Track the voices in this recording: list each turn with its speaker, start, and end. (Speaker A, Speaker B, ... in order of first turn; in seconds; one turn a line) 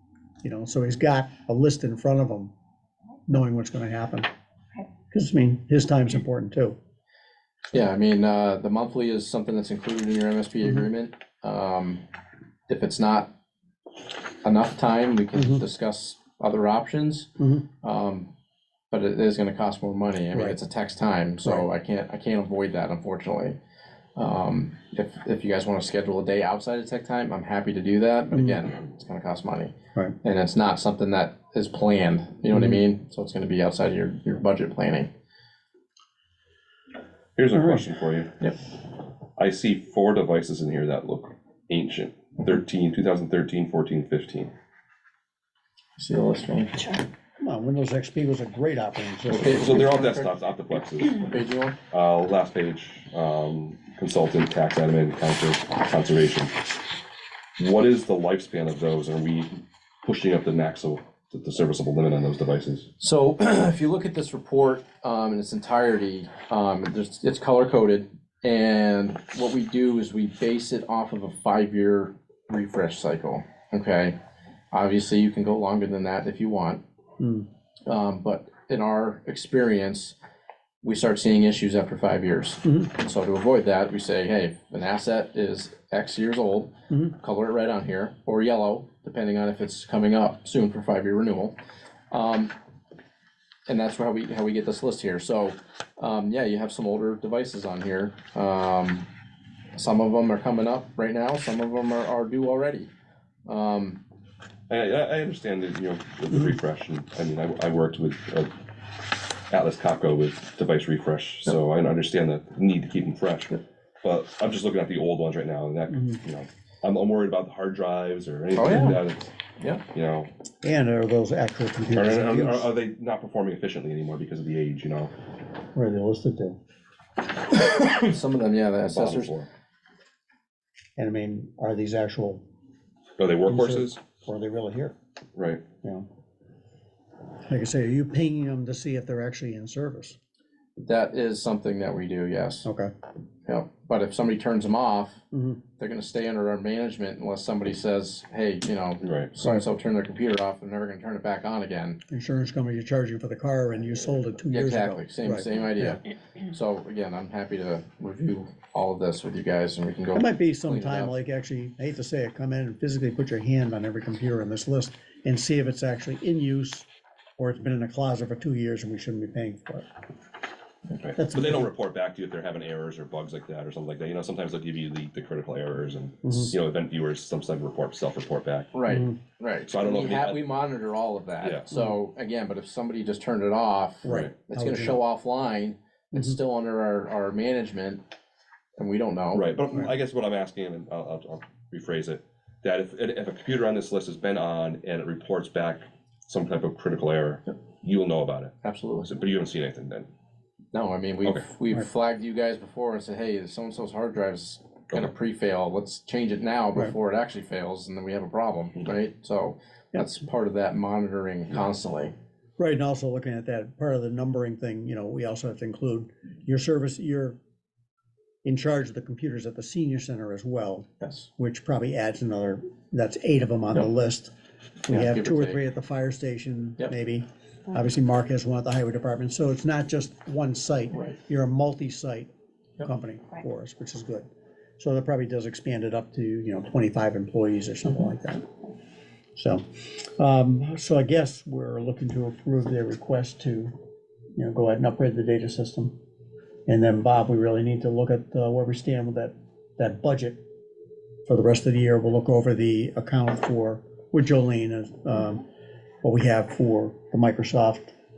Speaker A: 0.4-2.5
Speaker A: 3.3-4.3
Speaker A: 5.1-6.8
Speaker B: 7.7-12.0
Speaker B: 12.7-13.3
Speaker B: 14.4-17.3
Speaker A: 15.4-15.6
Speaker A: 17.4-17.6
Speaker B: 17.8-18.3
Speaker B: 18.9-23.6
Speaker B: 24.2-35.1
Speaker A: 28.3-28.6
Speaker A: 32.5-32.8
Speaker C: 37.4-38.3
Speaker A: 37.6-37.8
Speaker C: 39.4-44.5
Speaker B: 46.0-46.9
Speaker A: 47.4-50.0
Speaker B: 49.3-51.8
Speaker C: 49.4-51.3
Speaker C: 51.9-56.7
Speaker C: 57.6-62.9
Speaker B: 63.0-74.2
Speaker B: 74.7-76.8
Speaker A: 77.2-77.5
Speaker B: 77.9-80.2
Speaker B: 80.8-91.5
Speaker A: 82.7-82.9
Speaker B: 92.1-92.5
Speaker B: 93.7-99.1
Speaker B: 99.8-102.9
Speaker B: 103.5-104.0
Speaker C: 104.7-108.6
Speaker C: 109.5-119.3
Speaker A: 115.9-116.2
Speaker B: 118.5-119.0
Speaker B: 119.6-119.8
Speaker C: 119.9-120.3
Speaker A: 120.6-122.7
Speaker C: 121.9-125.1
Speaker A: 125.7-126.6
Speaker B: 127.5-129.3
Speaker C: 128.9-129.5
Speaker A: 131.0-132.4
Speaker C: 133.2-134.0
Speaker A: 133.5-134.9
Speaker C: 135.3-135.6
Speaker A: 137.5-140.2
Speaker B: 140.8-142.7
Speaker A: 142.7-142.9
Speaker B: 143.5-145.2
Speaker A: 145.3-145.6
Speaker B: 145.8-152.0
Speaker C: 149.0-149.3
Speaker A: 152.1-156.0
Speaker B: 154.4-161.1
Speaker A: 160.1-166.9
Speaker A: 167.4-169.9
Speaker C: 171.0-178.7
Speaker A: 171.2-171.7
Speaker A: 176.2-176.5
Speaker B: 178.7-188.0
Speaker A: 178.9-179.2
Speaker C: 179.7-180.4
Speaker C: 181.4-181.7
Speaker A: 184.0-185.0
Speaker B: 188.8-189.5
Speaker C: 189.3-198.5
Speaker B: 198.6-199.1
Speaker C: 199.1-200.1
Speaker B: 200.7-212.2
Speaker A: 212.6-217.4
Speaker A: 218.4-224.3
Speaker B: 221.0-221.3
Speaker B: 224.9-225.6
Speaker A: 224.9-232.3
Speaker A: 232.8-234.3
Speaker A: 234.8-238.5
Speaker A: 239.4-243.8
Speaker A: 244.4-246.0
Speaker A: 246.7-250.4
Speaker A: 251.3-255.4
Speaker A: 256.0-257.9